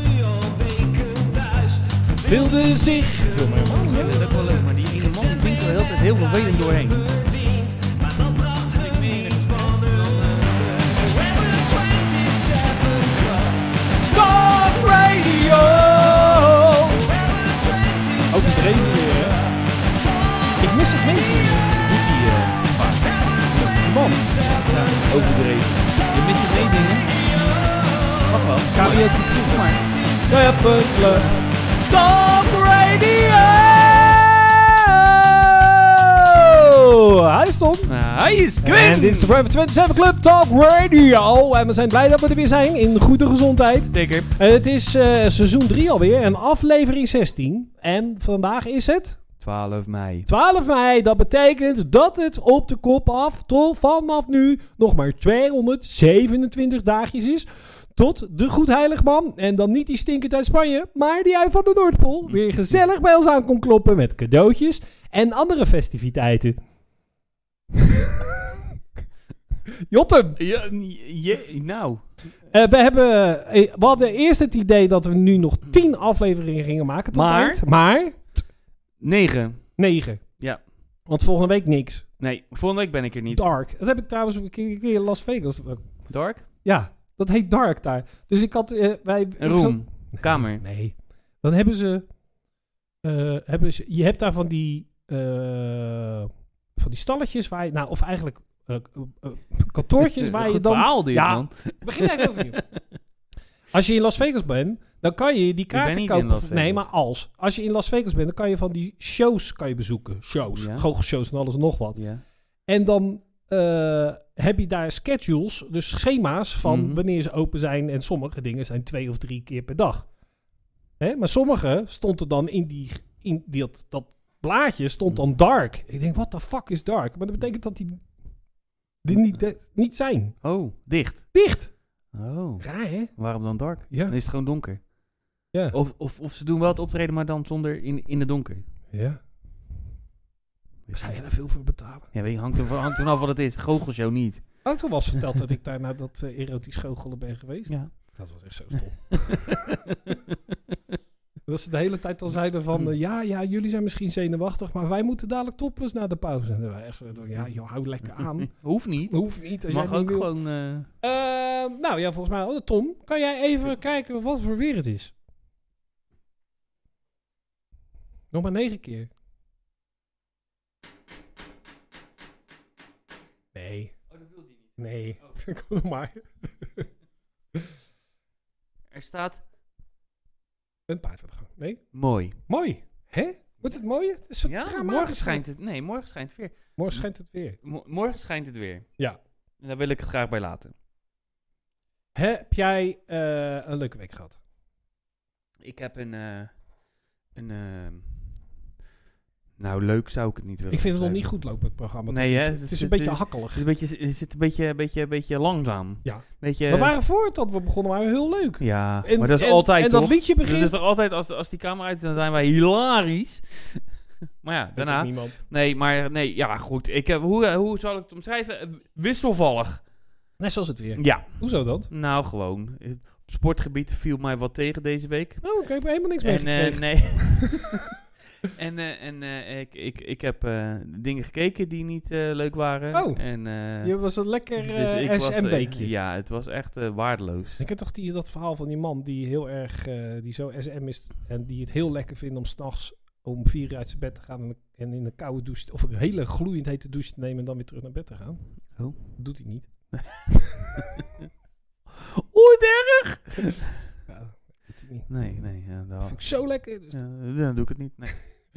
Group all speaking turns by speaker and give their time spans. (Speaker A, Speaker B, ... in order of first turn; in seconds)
Speaker A: 0.4-1.7, 2.2-4.3, 8.1-9.5, 10.1-17.3, 18.3-19.4, 20.6-21.8, 23.5-25.6, 28.7-29.7, 30.3-37.9, 38.6-49.2, 50.3-66.6, 67.8-68.6, 69.9-70.4, 72.5-78.3, 79.8-80.3, 81.1-82.1, 83.3-85.9, 86.6-92.1, 93.0-102.6, 103.7-112.0, 112.7-120.1, 121.0-128.0, 129.0-130.4, 131.3-131.7, 132.6-133.1, 133.9-134.2, 138.9-139.2, 140.9-142.7, 144.6-149.7, 151.5-160.3, 161.0-165.1, 168.3-169.1, 173.5-173.9, 174.8-176.9, 180.9-181.8, 182.4-185.4, 186.8-187.6, 192.2-194.4, 200.7-203.6, 206.0-210.8, 214.8-215.4, 220.4-221.9, 225.4-227.4, 232.9-235.9, 237.6-250.8, 254.1-255.1, 256.0-257.0
Speaker B: 2.2-2.4, 3.8-7.1, 8.6-10.2, 21.7-23.7, 24.5-27.1, 28.2-29.9, 37.9-39.3, 43.9-44.3, 49.4-50.3, 70.4-72.0, 77.1-77.6, 79.0-79.7, 82.2-83.5, 86.1-86.5, 89.4-90.6, 100.2-102.8, 105.7-106.9, 110.5-110.9, 112.0-112.2, 116.6-117.0, 130.4-131.3, 132.1-134.8, 135.7-138.7, 140.9-141.2, 142.1-144.6, 147.7-148.2, 148.7-150.2, 157.4-160.9, 174.1-175.4, 178.9-179.4, 181.9-182.4, 184.4-187.1, 187.6-188.9, 189.6-190.7, 195.6-196.6, 197.3-198.4, 199.6-201.3, 202.1-206.9, 208.6-213.8, 214.4-219.8, 221.0-225.5, 226.2-227.9, 228.5-233.9, 234.6-237.7, 248.8-249.2, 249.9-250.2, 252.2-253.7, 255.1-256.3, 256.9-258.2